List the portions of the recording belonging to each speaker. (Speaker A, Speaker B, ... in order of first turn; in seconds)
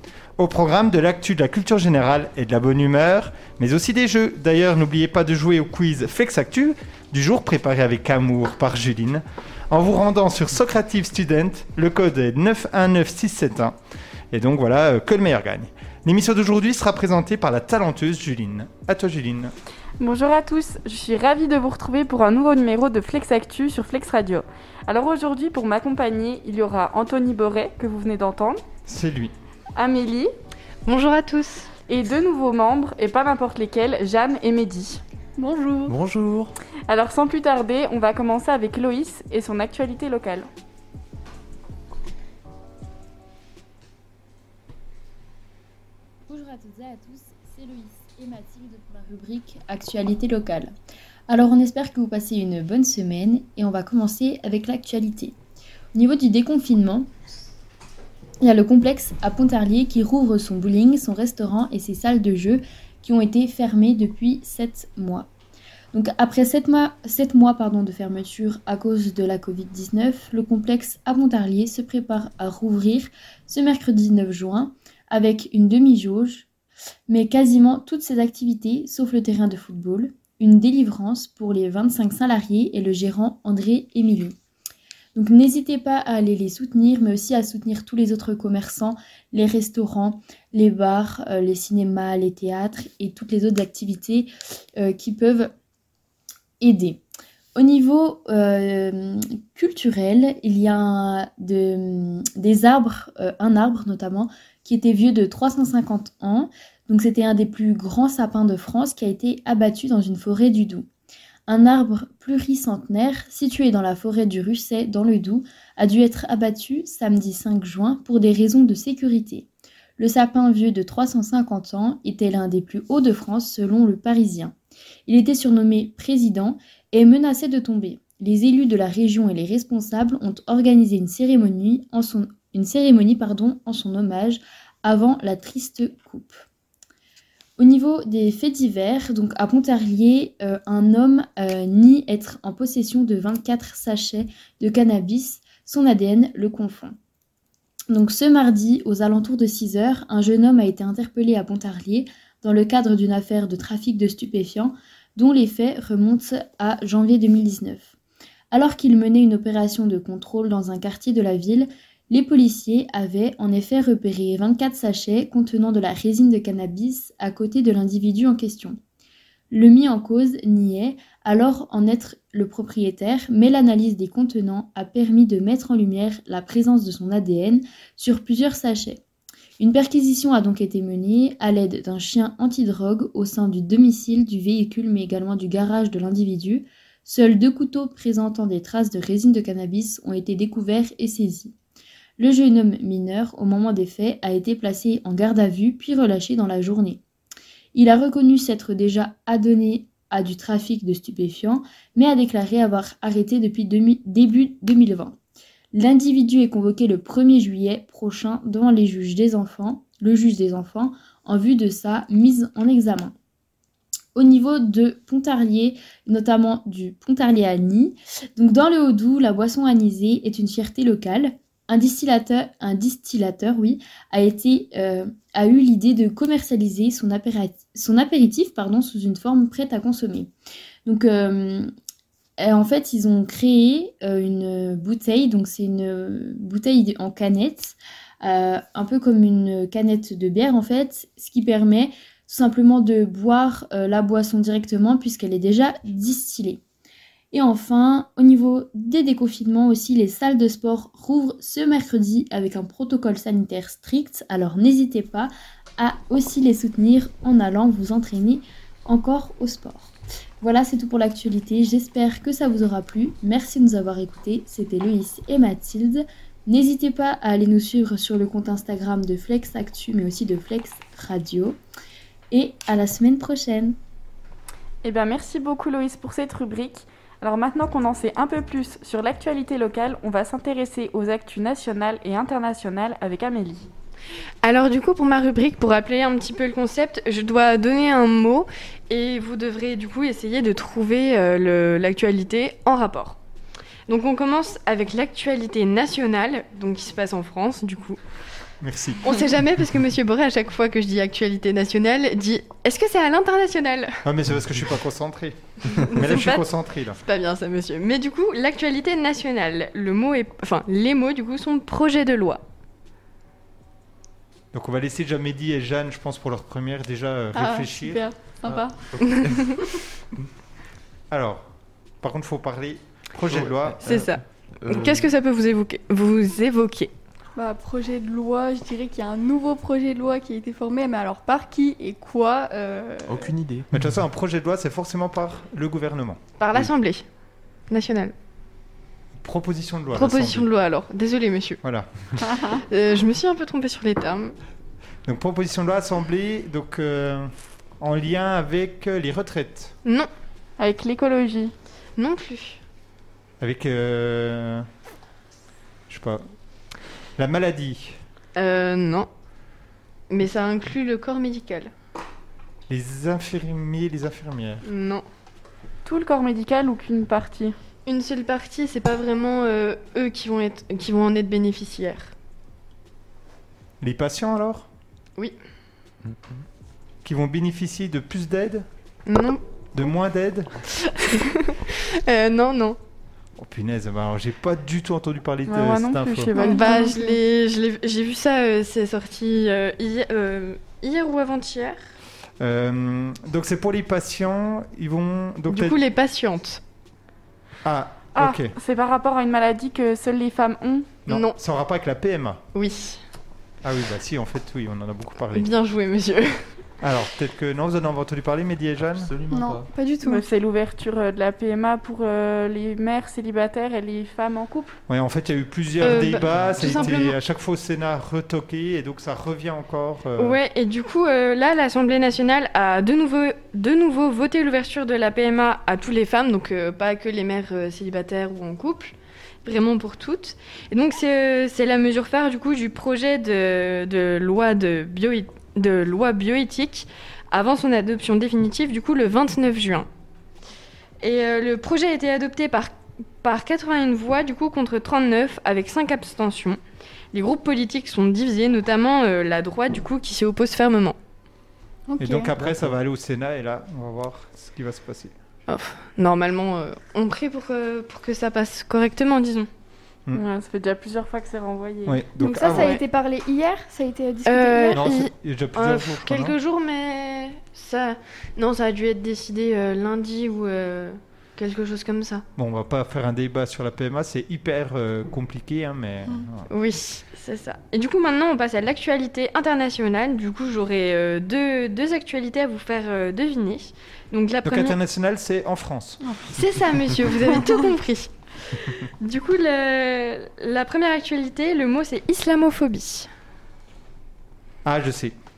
Speaker A: 0.4-13.8, 14.3-19.5, 28.9-29.3, 298.6-299.0, 304.0-307.0, 314.5-318.0, 321.1-321.5, 322.0-324.1, 333.7-336.2, 339.2-340.5, 341.6-342.5, 345.1-349.8, 353.4-354.7, 355.9-356.3, 357.2-358.0, 362.7-364.6, 373.8-374.7, 377.0-378.7, 379.8-380.5, 383.4-386.3, 392.4-395.8, 397.6-398.5, 401.1-402.4, 403.6-405.5, 406.8-409.1, 414.9-420.4, 452.0-455.1, 461.9-462.8, 464.7-466.4, 472.4-476.5, 484.4-486.1, 494.6-495.1
Speaker B: 20.0-28.6, 29.8-30.3, 31.9-35.0, 36.9-40.5, 274.8-283.7, 350.6-351.5, 365.9-367.6, 385.5-386.8, 398.1-400.9, 410.0-414.8, 460.1-462.0
Speaker C: 30.9-31.7, 284.4-293.2, 293.9-298.0, 299.0-304.0, 305.7-306.5, 307.0-312.4, 319.1-319.6, 323.8-326.9, 336.4-337.1, 337.7-338.1, 339.9-341.6, 342.3-344.4, 352.0-352.6, 358.4-359.1, 360.1-361.7, 364.6-365.1, 367.9-372.1, 379.1-379.4, 380.9-382.8, 386.3-391.8, 395.5-396.6, 401.1-401.4, 402.6-403.0, 405.3-406.5, 415.8-417.1, 420.2-439.9, 441.0-446.6, 447.1-451.0, 455.5-459.5, 462.5-462.8, 464.3-472.2, 476.5-484.8, 486.3-493.1
Speaker D: 35.4-35.9, 317.3-318.8, 327.4-333.3, 386.3-387.2, 409.3-410.2, 451.9-452.3, 462.2-464.9
Speaker E: 35.9-36.5, 318.5-319.0, 323.3-325.1, 333.1-333.9, 376.0-376.4, 408.9-409.7, 416.2-416.6, 452.4-452.8
Speaker F: 46.3-50.7, 51.3-55.4, 55.9-57.1, 58.4-65.3, 65.9-76.5, 77.1-84.4, 85.2-95.5, 96.6-97.0, 97.5-110.9, 111.5-124.5, 125.1-136.4, 137.6-147.0, 147.9-157.9, 158.5-168.8, 169.5-179.0, 179.6-191.6, 192.2-197.0, 197.7-205.2, 205.7-213.2, 214.2-230.3, 230.8-231.7, 232.4-246.6, 247.3-271.6, 272.3-273.8